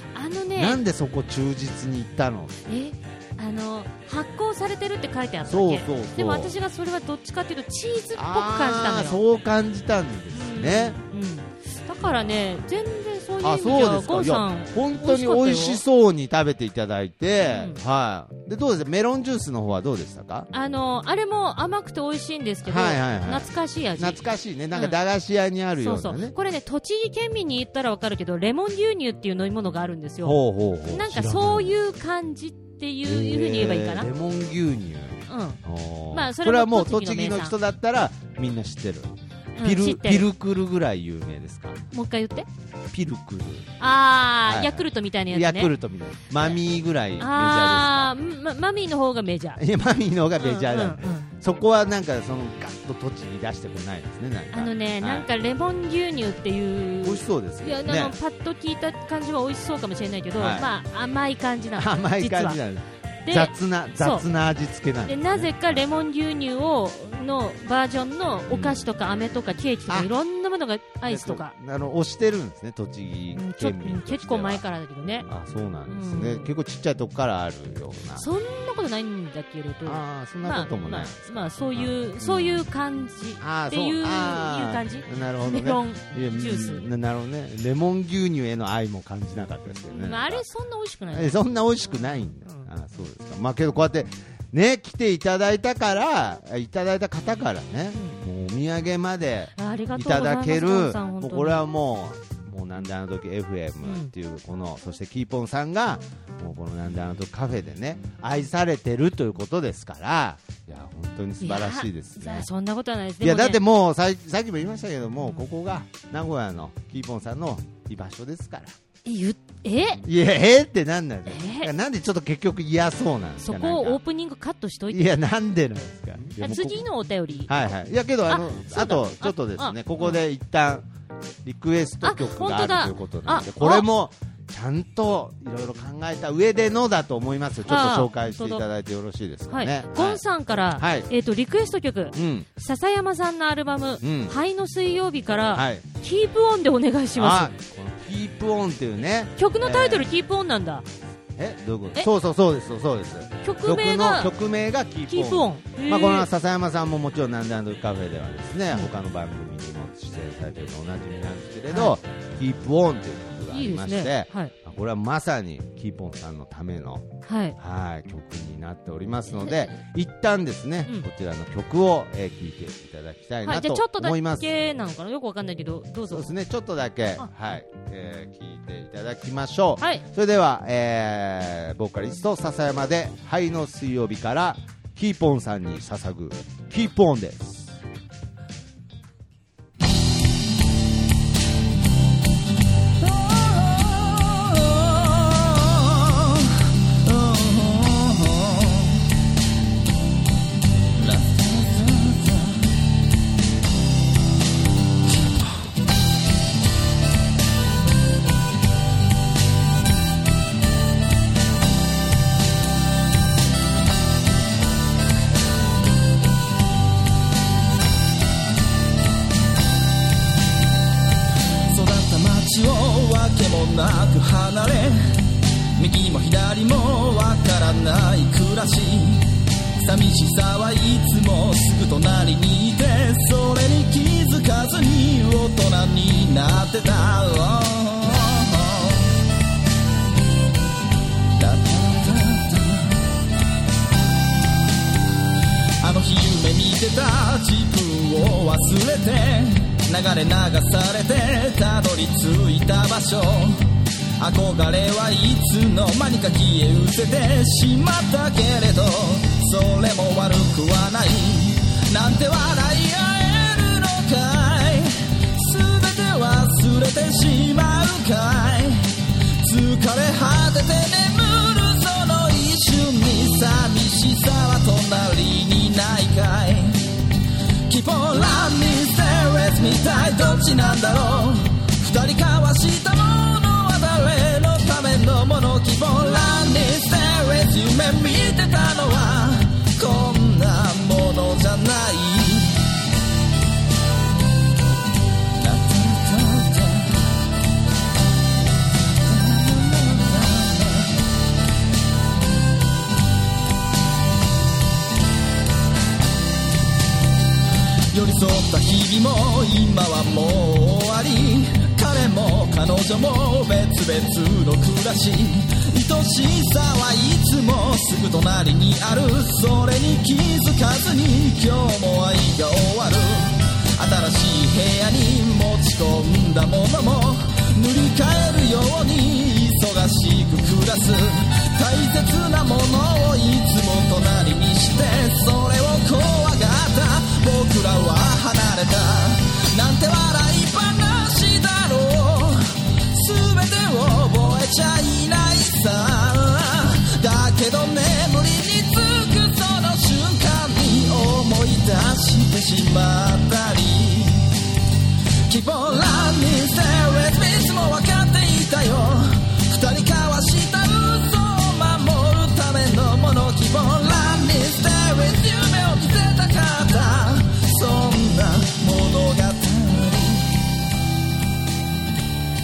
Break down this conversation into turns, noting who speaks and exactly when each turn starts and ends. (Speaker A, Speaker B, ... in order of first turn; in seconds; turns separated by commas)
Speaker A: 0.1-0.8, Speaker B: 0.6-2.8, Speaker A: 2.7-9.2, Speaker B: 5.5-6.5, Speaker B: 8.2-11.0, Speaker A: 10.3-15.8, Speaker B: 12.0-12.6, Speaker B: 13.4-20.5, Speaker A: 17.4-17.8, Speaker A: 20.5-24.2, Speaker B: 22.6-26.4, Speaker A: 24.7-25.0, Speaker A: 25.8-30.4, Speaker B: 30.2-31.8, Speaker A: 30.9-34.1, Speaker B: 33.0-41.8, Speaker A: 35.3-35.6, Speaker A: 36.1-37.5, Speaker A: 39.6-40.3, Speaker A: 41.9-42.5, Speaker B: 42.9-43.7, Speaker A: 43.8-45.7, Speaker B: 44.5-48.1, Speaker A: 47.2-49.6, Speaker B: 49.6-55.3, Speaker A: 50.4-51.3, Speaker A: 54.5-62.6, Speaker B: 57.0-58.1, Speaker B: 60.4-60.7, Speaker B: 61.8-65.9, Speaker A: 63.2-64.3, Speaker A: 65.0-71.5, Speaker B: 68.5-68.8, Speaker B: 71.0-74.6, Speaker A: 73.3-75.3, Speaker B: 75.2-78.3, Speaker A: 75.9-76.5, Speaker A: 78.2-86.9, Speaker B: 79.8-82.7, Speaker B: 83.4-90.5, Speaker A: 89.9-91.4, Speaker B: 91.1-112.5, Speaker A: 99.6-101.7, Speaker A: 103.8-104.1, Speaker A: 111.4-113.6, Speaker B: 113.2-118.8, Speaker A: 119.0-120.0, Speaker B: 120.0-124.0, Speaker A: 121.3-121.7, Speaker A: 123.4-125.1, Speaker B: 124.9-126.8, Speaker A: 126.4-127.5, Speaker B: 127.5-130.9, Speaker A: 128.3-130.2, Speaker B: 131.4-141.1, Speaker A: 132.0-133.9, Speaker A: 137.7-138.7, Speaker A: 139.5-147.5, Speaker B: 142.1-142.5, Speaker B: 144.0-144.3, Speaker B: 145.5-145.8, Speaker B: 147.2-150.1, Speaker A: 149.4-150.9, Speaker B: 151.4-167.1, Speaker A: 153.4-154.3, Speaker A: 155.1-156.3, Speaker A: 161.7-162.0, Speaker A: 163.5-164.5, Speaker A: 167.3-167.6, Speaker B: 167.6-174.5, Speaker A: 173.4-176.3, Speaker B: 176.1-187.8, Speaker C: 193.0-199.1, Speaker C: 200.9-202.7, Speaker C: 205.1-205.5, Speaker C: 221.7-225.2, Speaker C: 225.8-229.3, Speaker C: 229.8-239.1, Speaker C: 241.3-243.0, Speaker C: 245.8-253.7, Speaker C: 254.2-277.0, Speaker C: 277.7-292.6, Speaker C: 295.3-297.1, Speaker C: 298.8-300.9, Speaker C: 307.9-354.4, Speaker C: 355.3-370.3